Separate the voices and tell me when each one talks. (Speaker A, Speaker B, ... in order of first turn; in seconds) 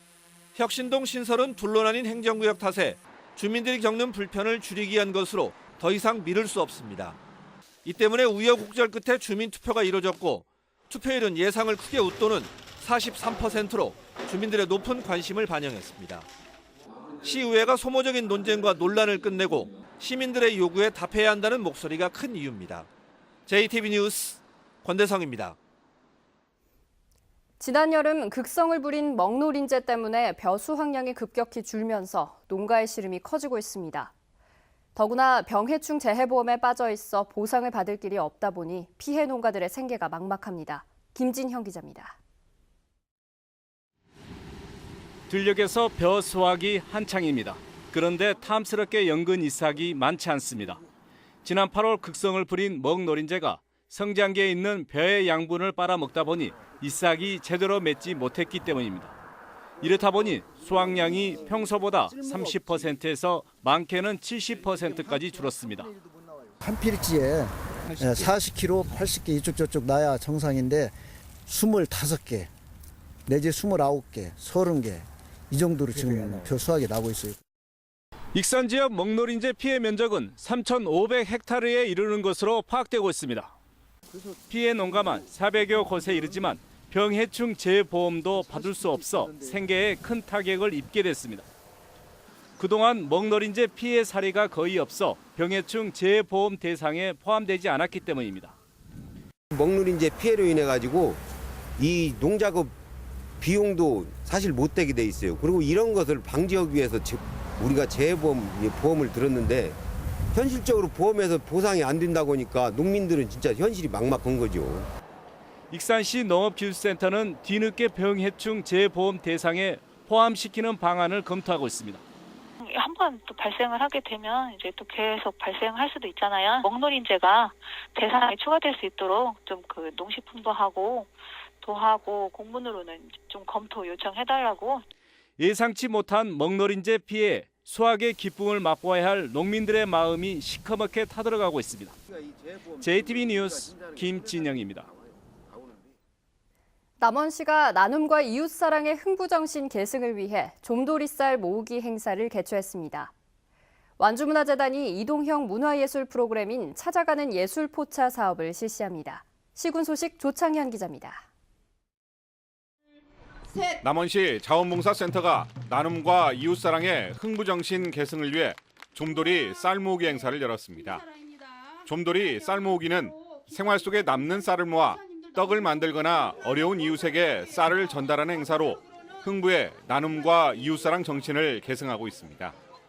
Speaker A: 0.6-7.2, 7.8-16.2, 17.2-22.9, 23.5-25.6
Speaker B: 27.6-34.1, 35.0-42.2, 147.0-153.1, 154.0-161.3
Speaker C: 45.3-50.8, 51.5-59.1, 59.8-65.9, 78.3-83.5, 84.5-91.5, 92.6-98.5, 115.7-122.0, 135.4-141.9, 142.8-144.9
Speaker D: 66.6-70.9, 71.5-72.5, 73.3-77.4
Speaker E: 99.5-101.2, 101.8-102.8, 103.4-109.8, 110.3-114.9
Speaker F: 122.6-134.8
Speaker G: 163.8-171.1, 171.8-182.6